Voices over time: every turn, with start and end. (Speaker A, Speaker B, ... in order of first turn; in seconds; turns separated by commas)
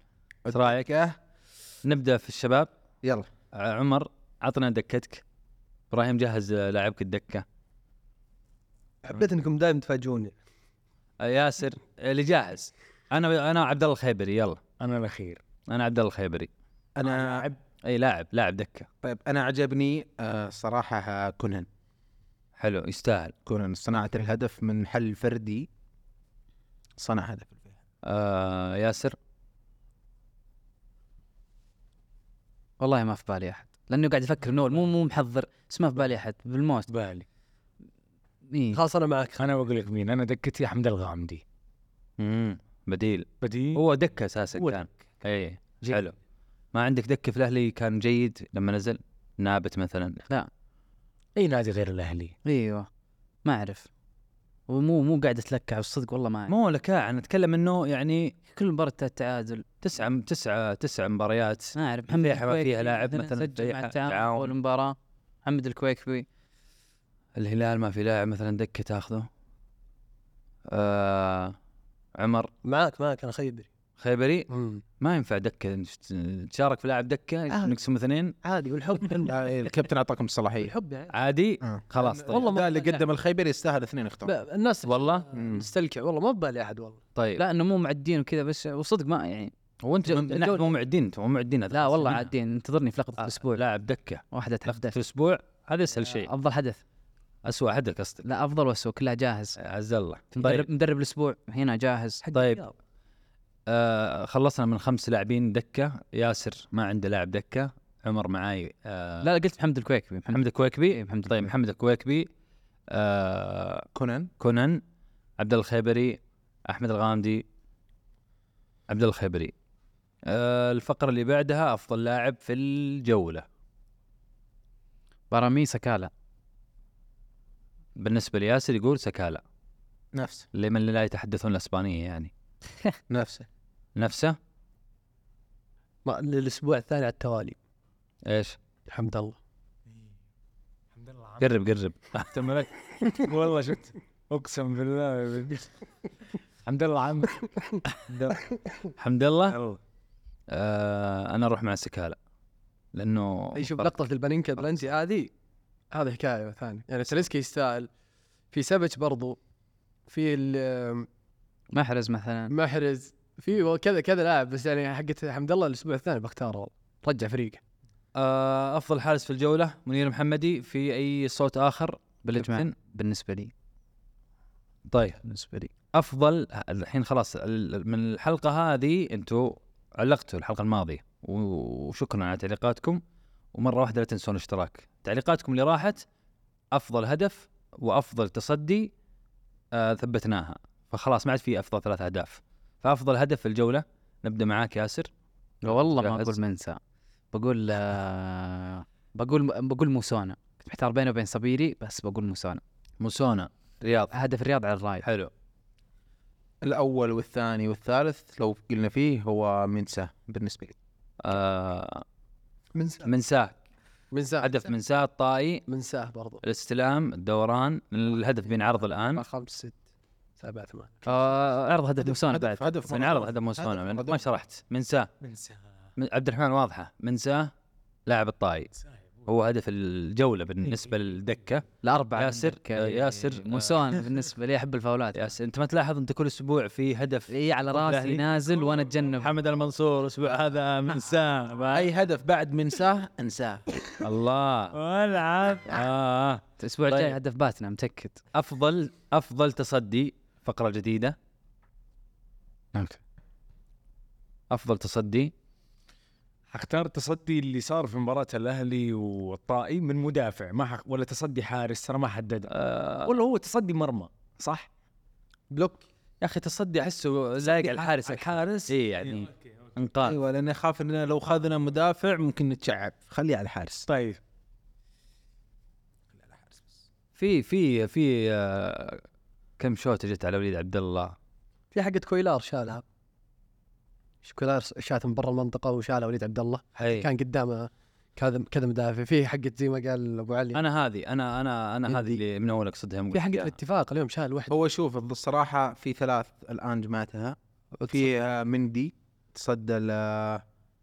Speaker A: 0.5-1.2, Speaker B: 0.5-0.8, Speaker B: 1.8-2.7, Speaker A: 3.0-3.3, Speaker B: 3.5-5.2, Speaker B: 5.9-7.5, Speaker C: 9.0-10.3, Speaker B: 11.2-14.6, Speaker D: 14.8-15.4, Speaker B: 15.7-16.5, Speaker A: 17.0-17.5, Speaker D: 17.0-17.6, Speaker B: 17.8-18.9, Speaker A: 19.0-21.7, Speaker B: 22.6-23.3, Speaker A: 23.5-25.7, Speaker A: 27.0-27.7, Speaker B: 28.0-29.2, Speaker E: 32.8-36.9, Speaker D: 36.9-37.2, Speaker E: 38.5-38.8, Speaker C: 38.7-39.4, Speaker D: 39.4-41.4, Speaker B: 42.2-46.1, Speaker D: 43.4-43.8, Speaker D: 44.6-44.9, Speaker B: 46.7-50.2, Speaker D: 51.4-52.4, Speaker E: 52.5-52.9, Speaker E: 53.4-53.9, Speaker E: 54.7-56.5, Speaker B: 56.5-58.3, Speaker E: 58.5-59.6, Speaker B: 59.8-64.5, Speaker E: 61.8-66.2, Speaker B: 67.3-69.3, Speaker B: 70.7-71.6, Speaker B: 72.2-72.5, Speaker C: 72.6-73.7, Speaker B: 74.0-74.5, Speaker C: 74.5-74.8, Speaker B: 75.0-78.4, Speaker C: 77.5-77.8, Speaker C: 78.4-79.4, Speaker A: 79.2-80.7, Speaker C: 80.6-81.1, Speaker B: 81.1-82.6, Speaker A: 81.6-84.3, Speaker C: 82.0-83.0, Speaker C: 84.2-87.0, Speaker B: 84.8-85.2, Speaker A: 85.3-85.7, Speaker B: 87.2-87.4, Speaker E: 87.4-89.5, Speaker B: 89.8-92.3, Speaker E: 91.7-93.6, Speaker B: 93.2-96.3, Speaker E: 94.3-95.0, Speaker E: 96.1-96.8, Speaker B: 97.4-98.2, Speaker E: 98.2-99.6, Speaker B: 99.6-100.7, Speaker E: 100.3-102.2, Speaker B: 102.3-102.6, Speaker B: 103.7-109.3, Speaker E: 109.2-111.5, Speaker B: 110.3-112.3, Speaker B: 112.9-113.9, Speaker A: 113.9-114.3, Speaker B: 114.4-114.8, Speaker B: 115.4-117.4, Speaker B: 118.9-119.5, Speaker B: 120.2-123.5, Speaker E: 125.3-126.1, Speaker B: 128.0-129.4, Speaker A: 130.1-130.5, Speaker B: 130.5-132.3, Speaker A: 133.1-133.5, Speaker B: 134.0-134.4, Speaker C: 136.1-137.6, Speaker B: 138.2-138.6, Speaker C: 138.9-139.4, Speaker D: 140.9-141.4, Speaker B: 141.4-142.3, Speaker D: 142.3-145.7, Speaker D: 146.7-148.5, Speaker B: 149.0-149.6, Speaker D: 149.5-149.8, Speaker B: 150.5-152.2, Speaker B: 152.9-153.9, Speaker C: 153.6-155.3, Speaker C: 155.9-157.9, Speaker C: 158.5-159.4, Speaker C: 160.1-161.1, Speaker E: 161.7-162.5, Speaker C: 162.5-167.6, Speaker B: 168.2-172.7, Speaker E: 172.2-173.5, Speaker B: 174.9-175.2, Speaker E: 175.2-175.7, Speaker B: 175.9-183.0, Speaker B: 183.5-186.0, Speaker B: 186.7-188.9, Speaker B: 189.7-195.1, Speaker E: 195.6-196.8, Speaker B: 195.7-196.4, Speaker E: 197.3-202.6, Speaker B: 203.0-204.1, Speaker E: 204.1-205.1, Speaker B: 205.0-205.3, Speaker A: 206.6-210.8, Speaker B: 211.2-212.1, Speaker B: 213.0-213.6, Speaker C: 214.1-214.6, Speaker B: 214.4-215.7, Speaker C: 215.7-216.4, Speaker B: 216.4-219.2, Speaker C: 219.2-219.8, Speaker C: 220.4-221.1, Speaker E: 221.1-222.6, Speaker A: 222.0-224.2, Speaker B: 222.9-225.1, Speaker D: 225.2-225.6, Speaker B: 226.0-227.5, Speaker B: 228.1-228.7, Speaker B: 229.2-231.6, Speaker E: 231.8-235.2, Speaker B: 232.2-234.0, Speaker B: 235.2-238.2, Speaker E: 237.3-239.3, Speaker B: 239.2-241.9, Speaker A: 241.7-243.8, Speaker B: 244.0-244.8, Speaker D: 244.7-245.8, Speaker B: 245.6-247.2, Speaker E: 246.6-248.2, Speaker B: 248.3-251.2, Speaker B: 254.5-255.3, Speaker D: 256.5-262.5, Speaker B: 262.5-263.1, Speaker D: 263.0-264.6, Speaker C: 265.5-265.8, Speaker B: 266.2-270.2, Speaker D: 267.4-269.3, Speaker A: 270.0-273.9, Speaker D: 273.9-274.2, Speaker A: 276.3-276.6, Speaker B: 277.2-279.0, Speaker B: 279.6-281.2, Speaker C: 281.7-282.8, Speaker C: 284.2-290.6, Speaker B: 286.8-287.1, Speaker B: 290.5-293.5, Speaker C: 291.9-292.2, Speaker C: 293.1-294.5, Speaker A: 294.5-300.4